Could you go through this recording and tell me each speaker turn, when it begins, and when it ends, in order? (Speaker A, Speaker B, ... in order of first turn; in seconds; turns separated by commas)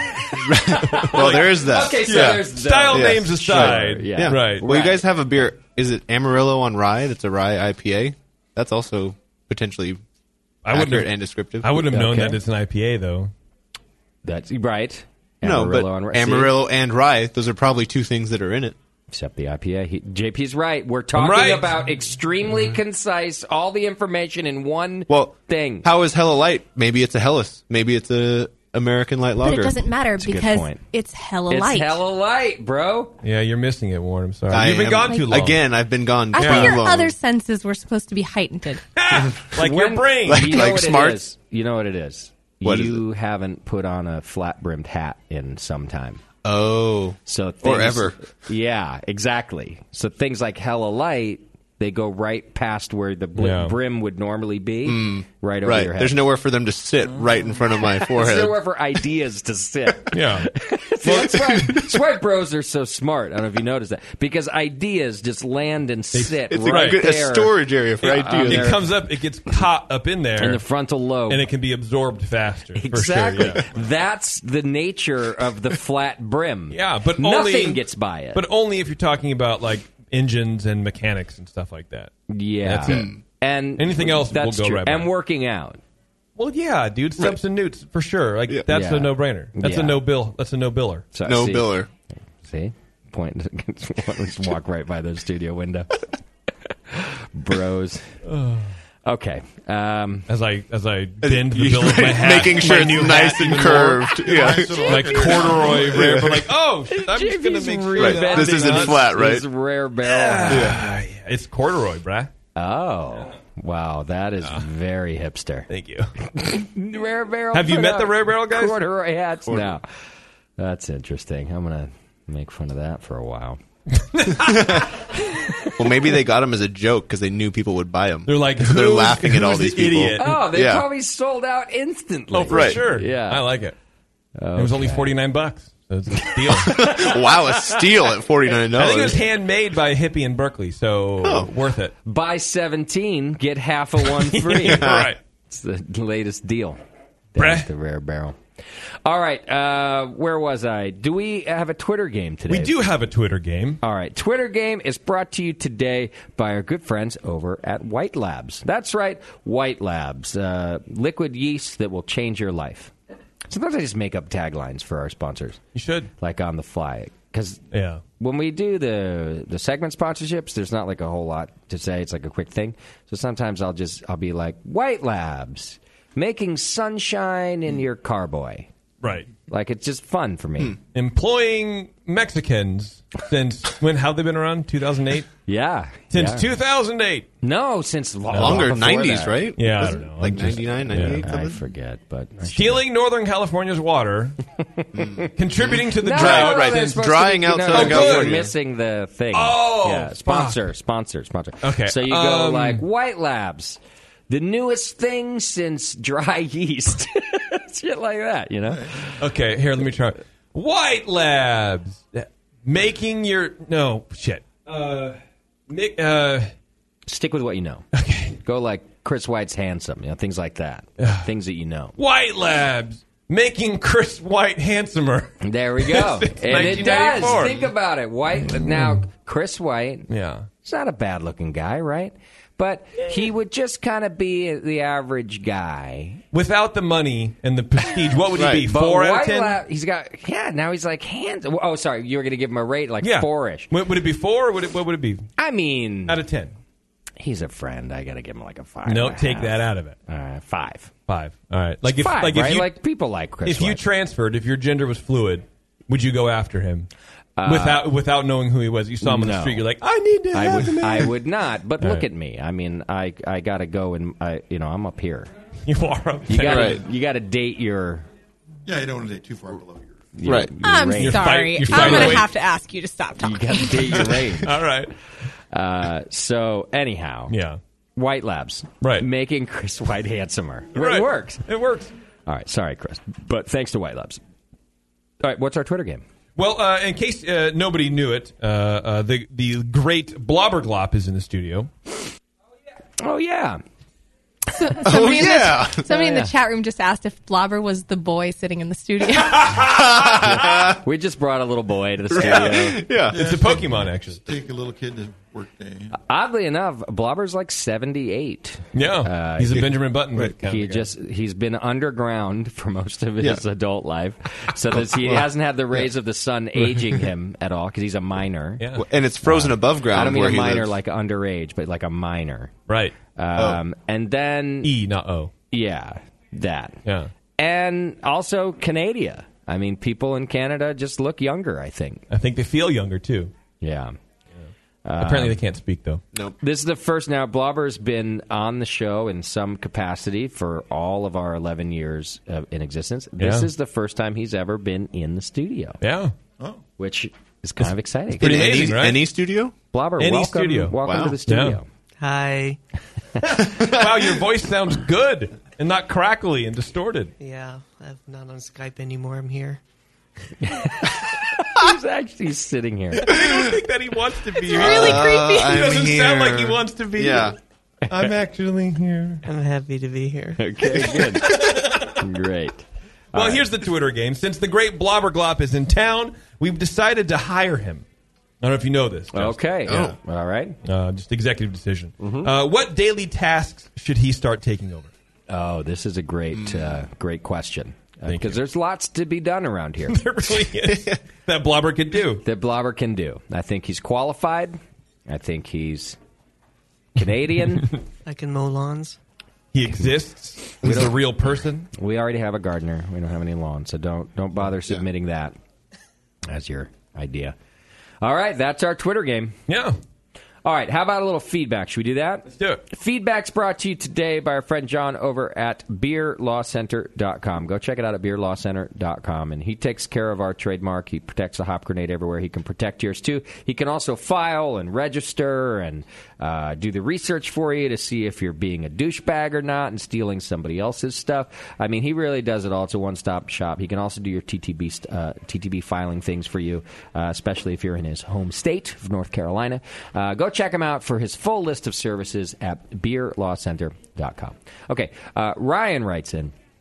Speaker A: 0.4-10.0, Speaker B: 0.8-4.7, Speaker C: 1.2-5.1, Speaker B: 10.7-13.3, Speaker A: 10.7-11.7, Speaker C: 11.8-12.4, Speaker C: 14.2-16.5, Speaker A: 15.4-18.8, Speaker C: 19.1-25.9, Speaker B: 21.1-21.8, Speaker A: 25.1-29.8, Speaker D: 29.4-32.0, Speaker C: 30.2-30.8, Speaker C: 31.5-33.2, Speaker B: 33.2-35.6, Speaker A: 34.5-37.1, Speaker D: 36.3-38.8, Speaker B: 36.4-36.8, Speaker B: 39.0-40.6, Speaker C: 39.5-46.2, Speaker A: 40.3-41.2, Speaker A: 42.6-43.0, Speaker A: 46.4-48.2, Speaker C: 47.3-56.2, Speaker B: 53.4-53.8, Speaker A: 54.9-58.6, Speaker E: 57.1-57.4, Speaker C: 57.9-68.8, Speaker B: 60.1-60.5, Speaker B: 61.1-61.3, Speaker A: 61.1-61.9, Speaker B: 66.1-67.0, Speaker A: 66.5-68.8, Speaker B: 68.0-70.6, Speaker C: 70.4-71.4, Speaker B: 71.3-73.7, Speaker C: 72.8-78.4, Speaker B: 76.7-77.8, Speaker B: 78.3-82.1, Speaker C: 82.3-85.8, Speaker B: 82.7-83.2, Speaker A: 82.8-83.2, Speaker B: 83.8-85.1, Speaker B: 86.4-91.1, Speaker C: 88.7-90.0, Speaker C: 91.1-91.8, Speaker A: 91.2-91.9, Speaker C: 92.4-96.0, Speaker C: 96.9-98.2, Speaker B: 98.3-98.7, Speaker C: 99.0-100.3, Speaker B: 100.3-104.1, Speaker A: 101.2-105.3, Speaker E: 104.2-106.5, Speaker B: 104.8-109.0, Speaker C: 106.9-110.7, Speaker A: 108.0-109.4, Speaker B: 110.0-112.3, Speaker A: 110.5-110.8, Speaker C: 112.5-115.7, Speaker B: 115.7-116.1, Speaker C: 116.3-119.8, Speaker B: 117.5-118.8, Speaker C: 120.6-123.6, Speaker B: 124.1-124.8, Speaker A: 124.3-124.9, Speaker C: 125.5-125.7, Speaker A: 125.8-130.8, Speaker B: 128.3-130.4, Speaker C: 130.2-133.4, Speaker B: 132.3-133.8, Speaker A: 132.5-132.8, Speaker C: 134.4-135.1, Speaker B: 134.6-136.9, Speaker A: 136.5-139.2, Speaker B: 138.7-141.9, Speaker A: 141.2-141.5, Speaker C: 142.1-146.8, Speaker B: 144.1-145.2, Speaker A: 144.7-145.1, Speaker C: 147.3-148.4, Speaker B: 147.4-147.7, Speaker C: 149.1-152.9, Speaker B: 152.5-153.8, Speaker C: 153.8-162.9, Speaker C: 163.5-165.6, Speaker B: 165.7-166.1, Speaker C: 166.2-167.6, Speaker B: 167.7-168.0, Speaker C: 168.2-178.7, Speaker B: 179.0-179.3, Speaker C: 179.5-180.8, Speaker B: 180.9-185.3, Speaker C: 185.5-186.5, Speaker B: 186.1-187.3, Speaker C: 187.4-189.7, Speaker B: 188.3-188.7, Speaker A: 188.3-191.6, Speaker B: 189.6-191.2, Speaker C: 190.9-192.8, Speaker B: 192.5-194.4, Speaker A: 194.9-198.5, Speaker B: 195.4-197.0, Speaker C: 196.0-209.0, Speaker B: 197.7-198.5, Speaker B: 199.3-200.6, Speaker B: 201.6-202.8, Speaker E: 208.7-209.1, Speaker B: 209.2-215.2, Speaker B: 215.7-216.5, Speaker C: 217.1-217.8, Speaker B: 217.9-218.4, Speaker C: 218.4-221.9, Speaker B: 221.0-221.3, Speaker B: 222.0-227.7, Speaker C: 225.4-230.1, Speaker B: 228.4-229.0, Speaker B: 230.1-230.5, Speaker C: 230.6-236.2, Speaker B: 236.3-239.6, Speaker A: 238.4-238.6, Speaker C: 238.7-243.7, Speaker B: 243.0-245.3, Speaker C: 245.4-246.2, Speaker B: 246.1-246.5, Speaker C: 247.2-250.9, Speaker B: 248.9-250.0, Speaker B: 251.1-252.7, Speaker C: 251.8-253.8, Speaker B: 253.4-256.9, Speaker C: 257.4-257.8, Speaker B: 257.4-261.1, Speaker C: 259.0-259.6, Speaker C: 260.3-265.3, Speaker B: 265.7-266.8, Speaker C: 266.3-268.1, Speaker A: 266.4-266.8, Speaker E: 268.7-270.1, Speaker C: 270.1-272.2, Speaker A: 270.2-270.5, Speaker D: 270.6-273.9, Speaker B: 271.0-272.3, Speaker C: 273.2-274.6, Speaker B: 274.4-274.9, Speaker C: 275.5-277.3, Speaker B: 277.3-277.6, Speaker C: 278.0-281.5, Speaker B: 280.8-281.9, Speaker C: 282.3-284.2, Speaker C: 285.2-286.0, Speaker B: 286.4-291.7, Speaker C: 293.0-293.6, Speaker D: 294.5-299.8, Speaker A: 294.8-295.9, Speaker C: 295.9-296.3, Speaker B: 299.8-300.7, Speaker A: 299.9-300.8, Speaker C: 300.8-302.8, Speaker A: 302.1-303.2, Speaker B: 302.2-304.2, Speaker E: 303.1-306.0, Speaker C: 306.0-309.7, Speaker B: 308.7-310.9, Speaker C: 310.2-318.6, Speaker A: 314.8-315.3, Speaker B: 318.6-318.9, Speaker A: 318.8-320.8, Speaker C: 319.3-322.5, Speaker B: 322.7-323.0, Speaker C: 323.1-324.7, Speaker A: 323.4-323.6, Speaker B: 324.6-325.3, Speaker C: 325.5-326.8, Speaker B: 326.9-327.1, Speaker C: 327.4-332.1, Speaker B: 332.1-333.3, Speaker C: 333.6-334.0, Speaker C: 334.9-335.4, Speaker B: 335.0-336.0, Speaker C: 336.4-345.8, Speaker B: 343.2-343.5, Speaker B: 345.8-346.1, Speaker C: 346.8-348.5, Speaker B: 347.6-349.0, Speaker A: 348.2-349.5, Speaker C: 349.7-351.6, Speaker B: 350.0-350.8, Speaker A: 350.8-351.2, Speaker B: 351.3-351.6, Speaker F: 352.0-352.6, Speaker B: 353.2-357.1, Speaker A: 353.4-353.8, Speaker F: 357.2-359.6, Speaker C: 360.4-363.1, Speaker B: 363.0-367.4, Speaker A: 363.1-363.5, Speaker A: 364.5-367.4, Speaker D: 364.6-365.4, Speaker B: 367.9-369.2, Speaker F: 369.2-370.5, Speaker C: 370.4-373.5, Speaker B: 370.9-372.0, Speaker B: 373.1-377.8, Speaker B: 378.4-379.4, Speaker C: 379.1-380.6, Speaker A: 379.7-380.0, Speaker B: 380.6-384.9, Speaker C: 385.3-390.2, Speaker A: 386.4-386.7, Speaker B: 388.1-388.4, Speaker B: 389.9-392.2, Speaker A: 390.7-391.0, Speaker C: 392.2-396.0, Speaker C: 397.0-397.7, Speaker F: 398.1-399.0, Speaker B: 399.5-401.7, Speaker C: 401.7-405.4, Speaker C: 406.3-407.4, Speaker C: 408.0-409.4, Speaker B: 409.5-409.8, Speaker C: 410.4-446.3, Speaker B: 412.3-412.6